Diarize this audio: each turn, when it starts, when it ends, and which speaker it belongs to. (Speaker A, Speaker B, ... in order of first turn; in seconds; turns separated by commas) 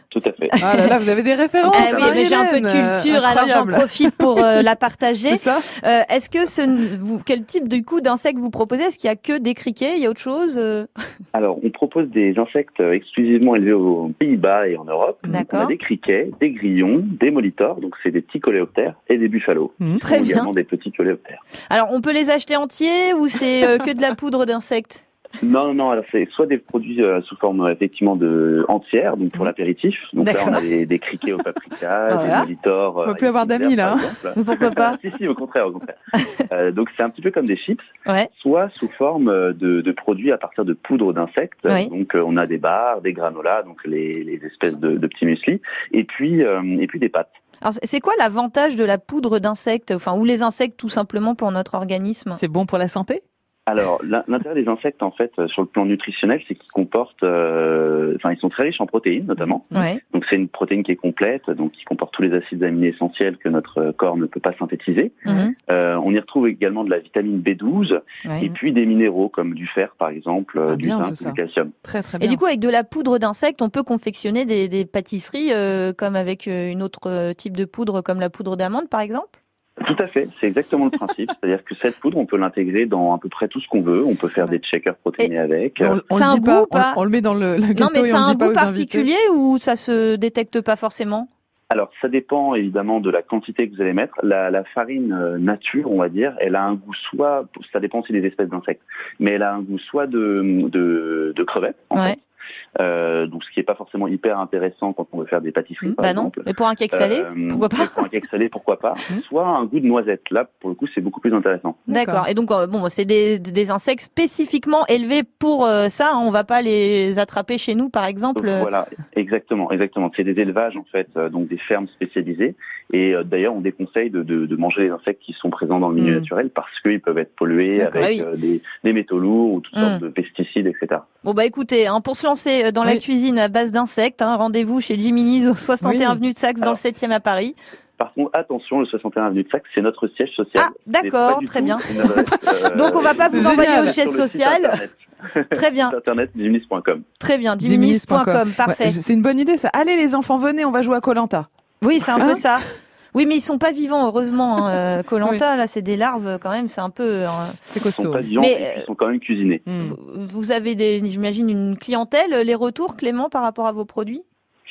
Speaker A: 0.1-0.6, Speaker B: 0.6-4.6, Speaker C: 0.7-1.0, Speaker A: 1.7-2.1, Speaker C: 1.7-10.9, Speaker B: 5.3-5.7, Speaker A: 11.3-21.4, Speaker C: 15.3-15.8, Speaker C: 20.0-20.5, Speaker C: 21.7-25.0, Speaker A: 25.4-36.0, Speaker C: 30.2-30.6, Speaker B: 32.1-32.5, Speaker B: 33.0-34.1, Speaker C: 34.4-35.0, Speaker A: 36.5-47.3, Speaker C: 47.6-52.4, Speaker B: 52.4-53.2, Speaker A: 53.7-71.7, Speaker B: 59.4-59.9, Speaker C: 59.7-60.0, Speaker C: 65.3-65.5, Speaker B: 70.7-72.4, Speaker C: 72.2-79.3, Speaker A: 79.8-86.0, Speaker B: 85.8-89.1, Speaker C: 86.1-87.0, Speaker C: 87.8-91.3, Speaker A: 91.7-102.2, Speaker A: 102.8-111.8, Speaker C: 106.0-108.1, Speaker B: 111.9-112.2, Speaker C: 111.9-118.7, Speaker A: 118.3-131.1, Speaker B: 126.0-126.3, Speaker B: 127.8-128.1, Speaker C: 128.0-128.3, Speaker C: 129.7-130.0, Speaker C: 131.2-137.6, Speaker B: 135.8-136.2, Speaker A: 138.0-147.1, Speaker C: 140.6-144.8, Speaker B: 143.3-144.0, Speaker C: 145.5-145.9, Speaker C: 147.2-149.0, Speaker B: 147.6-151.5, Speaker C: 151.8-157.8, Speaker B: 152.2-152.4, Speaker B: 157.7-158.3, Speaker A: 157.8-159.6, Speaker C: 158.4-158.9, Speaker B: 159.7-160.0, Speaker C: 159.8-164.2